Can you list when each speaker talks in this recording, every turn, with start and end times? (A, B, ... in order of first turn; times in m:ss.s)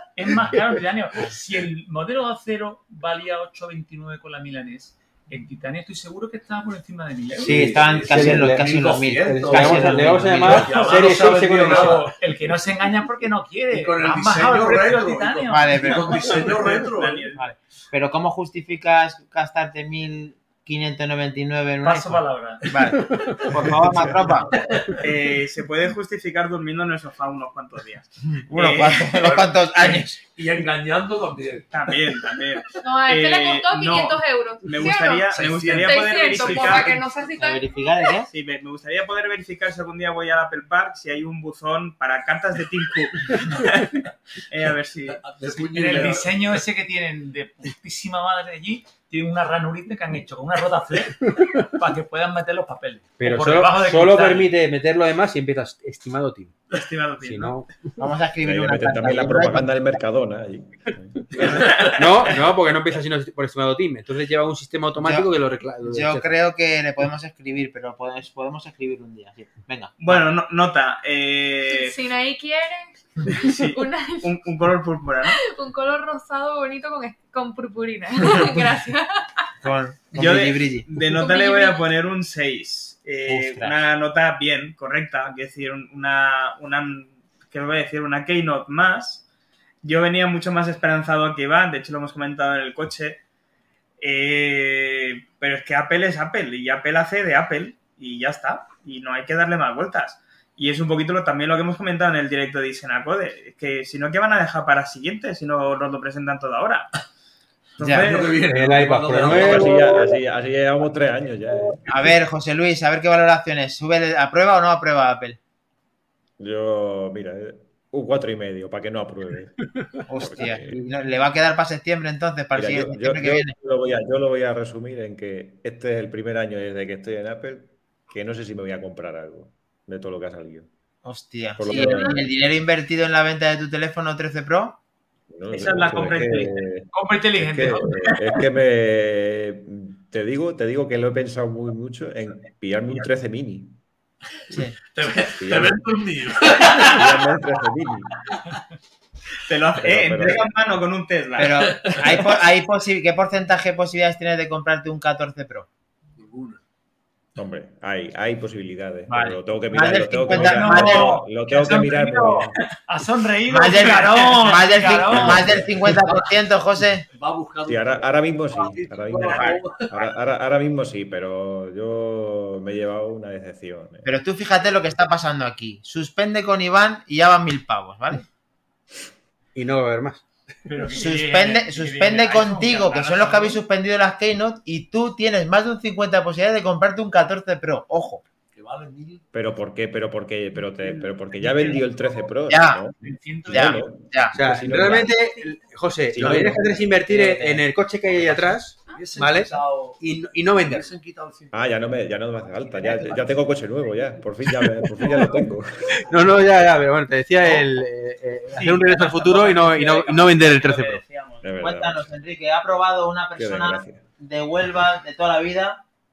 0:00.2-0:07.8 A
0:00.5-0:00.7 B
0:07.4-0:12.1 C
0:07.4-0:10.7 D
0:07.4-0:12.1 B
0:10.4-0:16.4 A
0:13.7-0:17.3 C
0:15.5-0:16.3 D
0:16.4-0:17.4 E
0:17.4-0:24.5 D
0:21.8-0:22.7 A
0:24.7-0:25.0 C
0:25.0-0:29.3 E
0:28.3-0:30.2 D
0:29.3-0:31.7 C
0:31.7-0:37.0 E
0:32.8-0:38.1 F
0:35.3-0:37.0 C
0:37.4-0:38.3 D
0:38.3-0:45.2 E
0:45.1-0:46.6 C
0:45.6-0:54.5 A
0:53.2-0:56.6 B
0:56.7-0:57.6 E
0:57.2-0:57.7 B
0:58.0-1:00.0 D
0:58.4-1:01.3 G
1:01.4-1:02.1 E
1:01.5-1:01.9 C
1:02.0-1:06.3 B
1:05.0-1:05.3 D
1:05.8-1:10.2 D
1:10.0-1:12.0 E
1:11.7-1:14.3 F
1:13.3-1:15.4 E
1:15.3-1:19.5 F
1:19.6-1:20.9 D
1:20.1-1:29.2 E
1:21.1-1:21.8 F
1:23.3-1:23.8 D
1:29.8-1:33.2 E
1:34.0-1:46.9 E
1:47.8-1:48.4 E
1:47.8-1:50.1 C
1:47.8-1:48.1 D
1:48.5-1:50.1 B
1:49.2-1:51.8 G
1:51.9-1:55.4 D
1:56.4-2:00.8 G
2:00.1-2:03.6 D
2:02.5-2:10.7 G
2:11.0-2:14.8 D
2:11.6-2:12.2 G
2:11.8-2:12.0 F
2:15.3-2:23.8 G
2:15.5-2:16.6 E
2:16.9-2:18.4 A
2:24.5-2:24.8 D
2:24.9-2:27.3 C
2:25.2-2:25.8 G
2:26.8-2:28.1 G
2:29.5-2:32.2 E
2:29.8-2:30.5 G
2:31.4-2:35.7 D
2:36.2-2:36.6 C
2:37.4-2:42.5 G
2:39.1-2:41.2 D
2:40.2-2:45.6 A
2:43.5-2:47.0 D
2:45.1-2:45.5 G
2:47.1-2:50.1 C
2:47.7-2:54.1 G
2:49.3-2:49.6 D
2:54.0-2:58.2 D
2:59.6-3:00.2 B
3:00.7-3:03.6 A
3:00.9-3:08.2 D
3:08.5-3:09.2 C
3:09.3-3:15.1 G
3:11.4-3:11.7 A
3:12.5-3:12.8 D
3:13.0-3:13.9 A
3:13.5-3:15.0 D
3:14.4-3:20.9 B
3:16.1-3:16.6 G
3:16.2-3:16.6 C
3:17.1-3:17.6 D
3:18.9-3:21.9 C
3:21.5-3:26.1 G
3:22.7-3:23.3 C
3:26.1-3:31.0 B
3:28.6-3:31.6 E
3:31.4-3:32.2 G
3:31.6-3:35.8 D
3:33.4-3:34.0 G